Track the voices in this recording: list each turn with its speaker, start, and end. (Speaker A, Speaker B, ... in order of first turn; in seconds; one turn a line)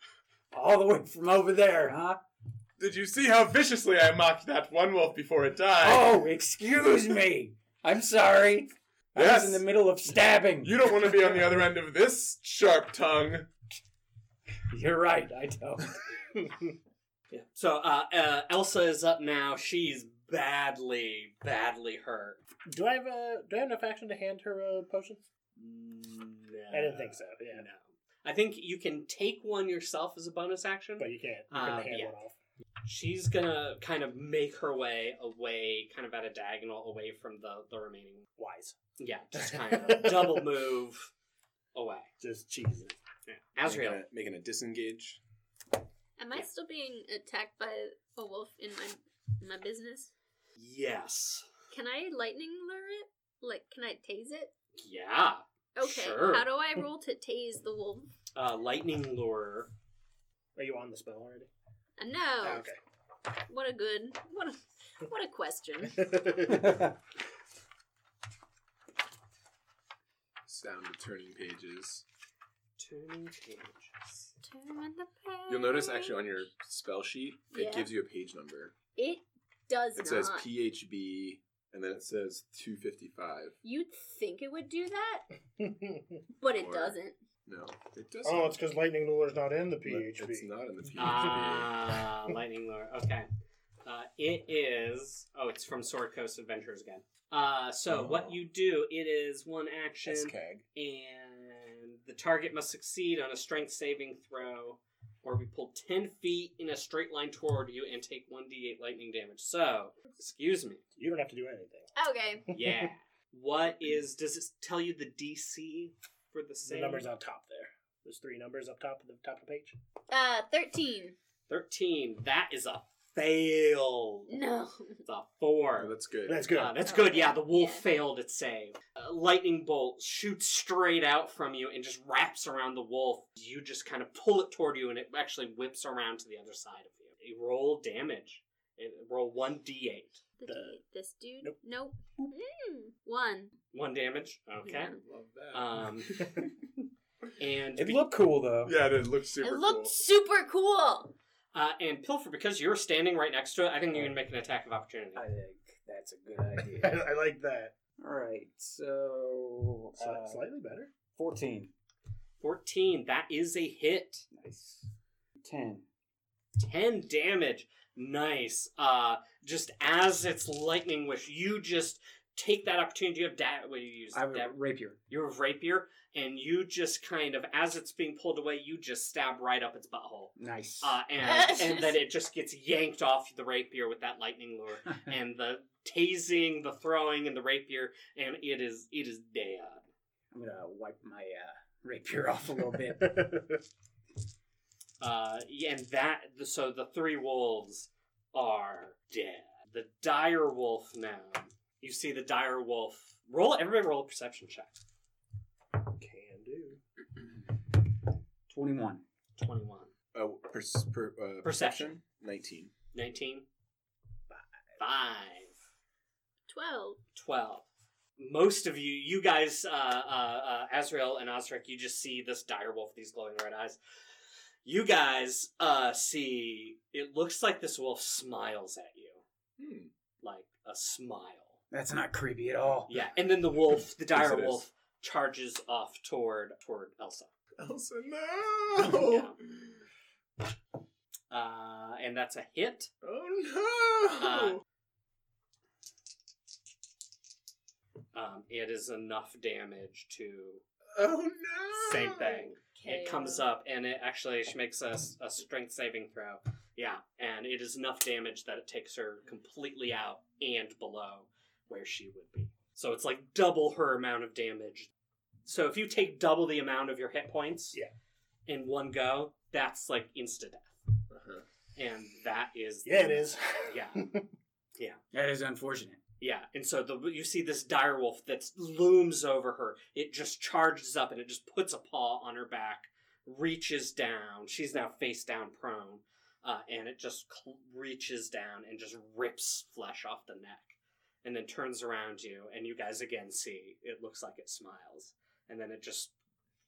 Speaker A: 0.5-2.2
Speaker B: 2.8-6.3
Speaker A: 5.8-11.3
Speaker B: 9.2-9.7
Speaker B: 10.6-13.5
Speaker A: 14.7-16.0
Speaker C: 16.4-16.7
Speaker D: 17.3-22.4
Speaker C: 22.7-25.2
Speaker D: 25.6-32.1
Speaker C: 26.7-27.6
Speaker C: 31.0-32.4
Speaker D: 32.8-38.3
Speaker C: 38.4-38.8
Speaker D: 39.0-41.1
Speaker C: 39.4-40.4
Speaker D: 41.7-42.1
Speaker C: 42.2-42.9
Speaker D: 43.3-44.0
Speaker B: 43.6-45.2
Speaker E: 46.2-50.1
Speaker D: 50.6-51.5
Speaker E: 51.7-54.5
Speaker D: 54.8-56.4
Speaker E: 55.8-58.1
Speaker D: 58.3-59.7
Speaker C: 60.5-61.5
Speaker E: 62.0-62.6
Speaker C: 62.4-62.8
Speaker E: 63.5-66.2
Speaker C: 66.0-66.8
Speaker A: 66.5-66.9
Speaker B: 70.5-72.0
Speaker D: 72.8-74.3
Speaker E: 74.4-76.3
Speaker B: 75.5-78.7
Speaker E: 77.5-77.9
Speaker E: 79.0-80.5
Speaker B: 80.0-83.5
Speaker E: 83.6-85.2
Speaker C: 85.6-86.2
Speaker E: 86.4-87.2
Speaker B: 86.5-88.6
Speaker C: 88.2-90.5
Speaker B: 89.8-92.1
Speaker D: 91.0-93.3
Speaker D: 93.8-110.8
Speaker B: 97.9-98.4
Speaker B: 100.0-100.6
Speaker C: 111.0-111.9
Speaker E: 112.0-112.5
Speaker C: 112.5-112.9
Speaker D: 112.5-117.1
Speaker C: 116.6-119.8
Speaker E: 120.1-121.2
Speaker D: 121.5-124.3
Speaker E: 124.3-125.0
Speaker D: 125.0-125.9
Speaker B: 125.8-126.5
Speaker C: 126.2-126.8
Speaker D: 126.5-140.2
Speaker E: 126.8-127.8
Speaker E: 140.4-143.5
Speaker C: 140.4-140.8
Speaker D: 143.7-144.9
Speaker E: 144.7-144.9
Speaker B: 144.9-146.5
Speaker D: 145.5-146.4
Speaker D: 147.4-148.1
Speaker A: 147.8-148.7
Speaker B: 148.6-149.9
Speaker E: 149.4-151.1
Speaker D: 151.5-155.3
Speaker A: 155.2-157.0
Speaker C: 156.7-157.7
Speaker A: 158.0-160.4
Speaker C: 160.0-160.9
Speaker A: 161.1-161.7
Speaker D: 162.4-164.3
Speaker A: 164.3-164.9
Speaker A: 165.4-165.8
Speaker D: 166.6-174.6
Speaker A: 174.1-175.0
Speaker D: 175.1-189.8
Speaker A: 180.4-181.0
Speaker E: 181.2-182.0
Speaker A: 190.3-193.5
Speaker C: 193.0-193.6
Speaker D: 195.0-204.8
Speaker C: 205.9-206.8
Speaker A: 208.5-209.0
Speaker D: 209.4-209.9
Speaker B: 210.1-212.7
Speaker D: 211.4-211.9
Speaker D: 212.9-213.4
Speaker D: 214.8-215.6
Speaker E: 216.5-217.0
Speaker D: 217.2-217.7
Speaker D: 218.2-223.8
Speaker D: 224.6-229.2
Speaker B: 229.6-229.9
Speaker D: 230.2-231.6
Speaker A: 231.7-233.0
Speaker D: 232.9-237.3
Speaker B: 234.1-234.6
Speaker B: 237.6-239.8
Speaker D: 238.9-239.4
Speaker D: 241.3-242.9
Speaker B: 243.0-244.6
Speaker D: 244.2-244.6
Speaker D: 248.1-250.6
Speaker B: 250.9-252.5
Speaker D: 251.7-264.9
Speaker E: 252.2-253.4
Speaker D: 265.4-267.8
Speaker D: 268.5-270.8
Speaker B: 271.1-271.4
Speaker D: 271.8-274.1
Speaker C: 272.8-274.3
Speaker A: 275.1-276.0
Speaker D: 276.2-296.1